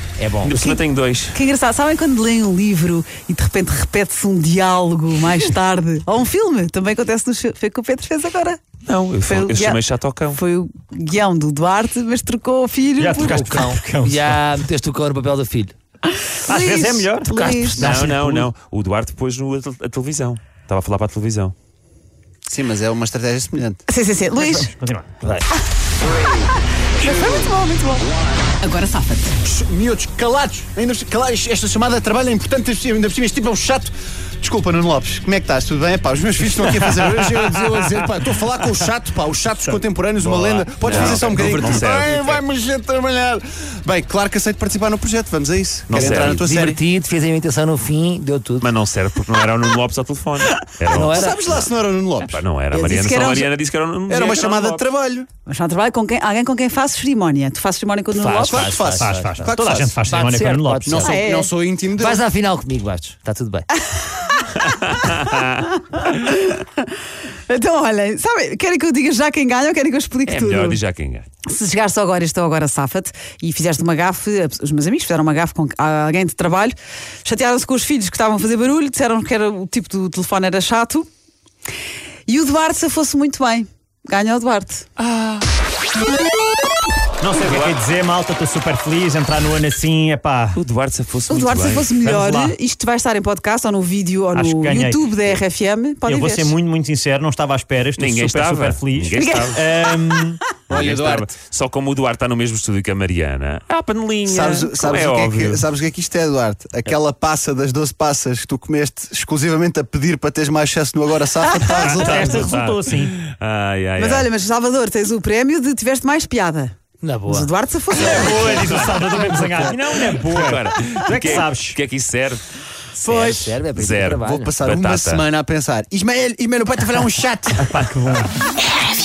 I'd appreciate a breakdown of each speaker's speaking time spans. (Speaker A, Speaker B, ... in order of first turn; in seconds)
Speaker A: 0.2-0.6, 13.4-15.7, 46.0-48.7, 50.9-51.6, 58.2-61.4, 61.9-63.7, 117.0-118.6, 123.0-124.5
Speaker B: 0.4-1.4, 8.8-10.4, 17.7-21.5, 40.4-42.4, 45.9-46.5, 48.6-54.8, 64.7-65.6, 70.3-71.2, 87.3-87.8, 90.5-91.9, 98.0-99.6, 100.7-105.7, 112.0-114.3, 118.0-122.4, 123.7-125.2
Speaker C: 0.5-0.8, 1.3-8.6, 9.3-13.7, 16.1-17.9, 23.9-24.7, 26.9-28.1, 28.6-29.4, 52.7-53.5, 55.5-58.7, 61.0-61.5, 64.0-64.4, 65.9-66.8, 67.5-70.8, 71.5-81.1, 82.3-84.9, 91.3-96.5, 99.2-99.4, 114.0-118.6
Speaker D: 13.0-14.4, 16.5-18.5, 24.4-25.4, 36.9-37.3, 39.7-41.8, 59.0-61.1, 87.2-90.6, 92.0-92.5, 94.3-95.1, 96.0-100.5, 111.8-113.2, 118.1-121.8, 127.6-128.3
Speaker E: 22.5-23.8, 29.4-46.8, 50.9-52.4, 54.1-55.3, 58.4-60.0, 60.8-62.2, 100.7-101.3, 104.2-112.5, 124.2-127.7